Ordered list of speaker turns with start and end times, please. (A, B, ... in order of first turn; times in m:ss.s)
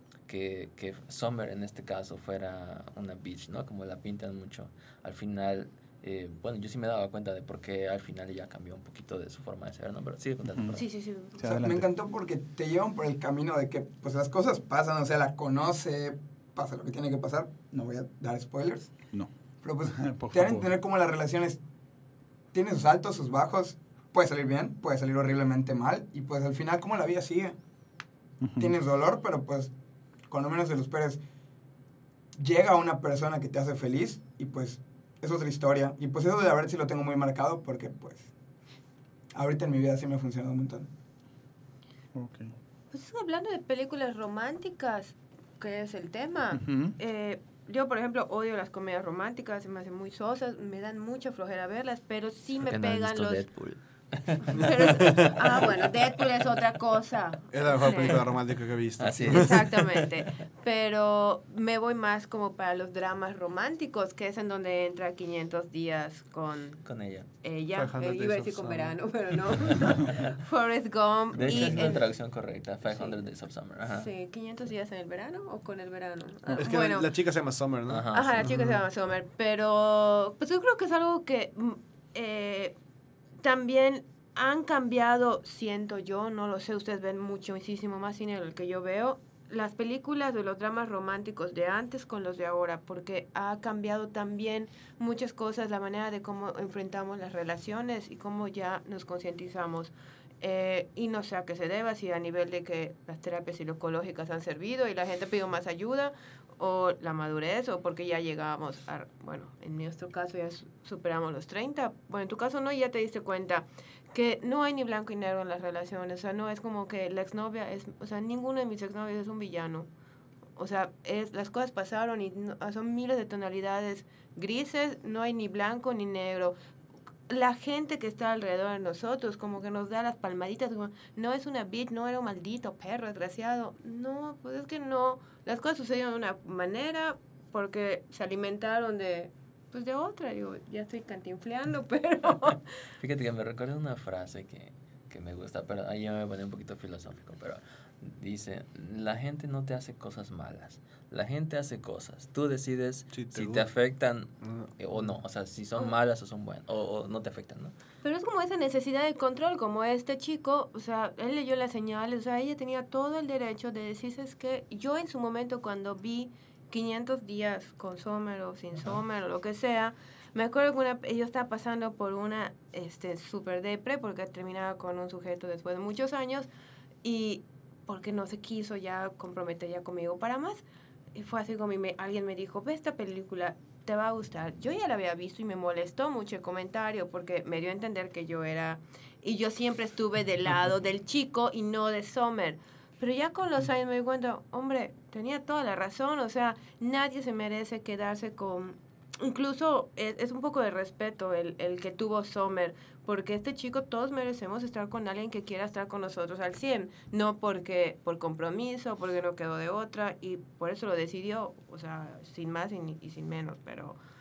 0:00.3-0:10.8 A
0:10.4-0:10.8 B
0:10.8-0:11.4 C
0:11.4-0:11.9 B
0:11.4-0:19.0 D
0:19.6-0:21.6 D
0:19.8-0:20.8 B
0:22.5-0:27.6 D
0:28.4-0:28.7 B
0:28.6-0:29.7 D
0:30.3-0:31.2 D
0:32.4-0:38.3 D
0:39.3-0:40.9 D
0:42.1-0:42.5 B
0:42.9-0:53.4 C
0:46.5-0:46.9 B
0:52.6-0:55.9 A
0:54.5-0:58.3 C
0:54.6-0:55.3 E
0:57.5-0:59.7 E
0:59.0-1:00.1 A
0:59.2-1:06.8 C
1:06.8-1:07.3 A
1:07.4-1:12.1 C
1:07.8-1:09.0 E
1:09.9-1:10.3 A
1:11.3-1:14.1 A
1:13.9-1:17.1 C
1:16.6-1:18.1 E
1:17.9-1:18.7 A
1:18.1-1:22.7 C
1:23.4-1:59.9 C
2:00.6-2:06.5 C
2:07.3-2:22.7 C
2:23.0-2:37.7 A
2:33.1-2:33.7 E
2:34.4-2:35.1 E
2:38.0-2:56.5 C
2:57.0-3:00.6 C
3:01.1-3:34.0 C